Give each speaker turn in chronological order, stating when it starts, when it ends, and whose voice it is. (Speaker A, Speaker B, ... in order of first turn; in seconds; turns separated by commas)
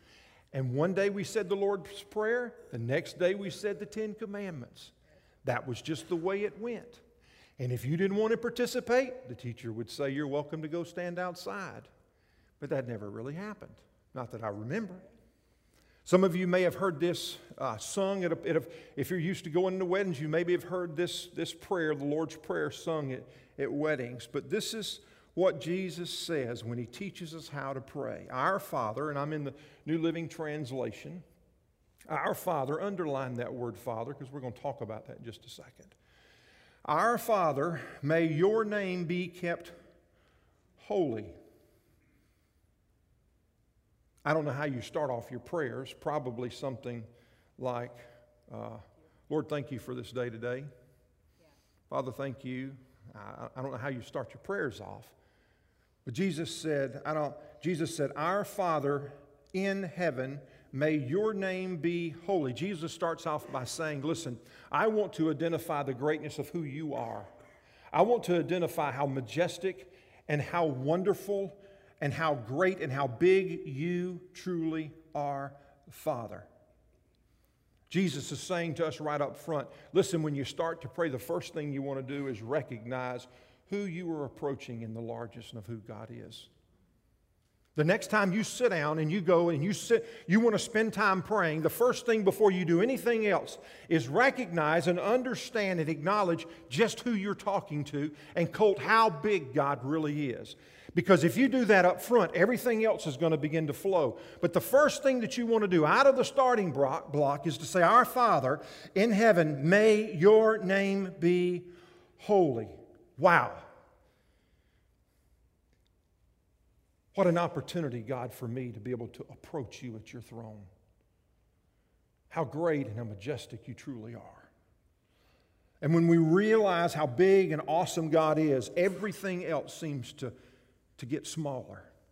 Speaker A: 0.5-7.0, Speaker A: 7.6-11.9, Speaker A: 12.6-15.0, Speaker A: 16.1-31.2, Speaker A: 32.1-35.9, Speaker A: 36.8-39.8, Speaker A: 40.8-41.4, Speaker A: 44.2-50.7, Speaker A: 51.9-55.1, Speaker A: 56.0-67.3, Speaker A: 67.9-76.5, Speaker A: 77.9-86.5, Speaker A: 87.8-113.7, Speaker A: 117.1-120.7, Speaker A: 122.3-124.5, Speaker A: 125.8-130.3, Speaker A: 131.0-131.9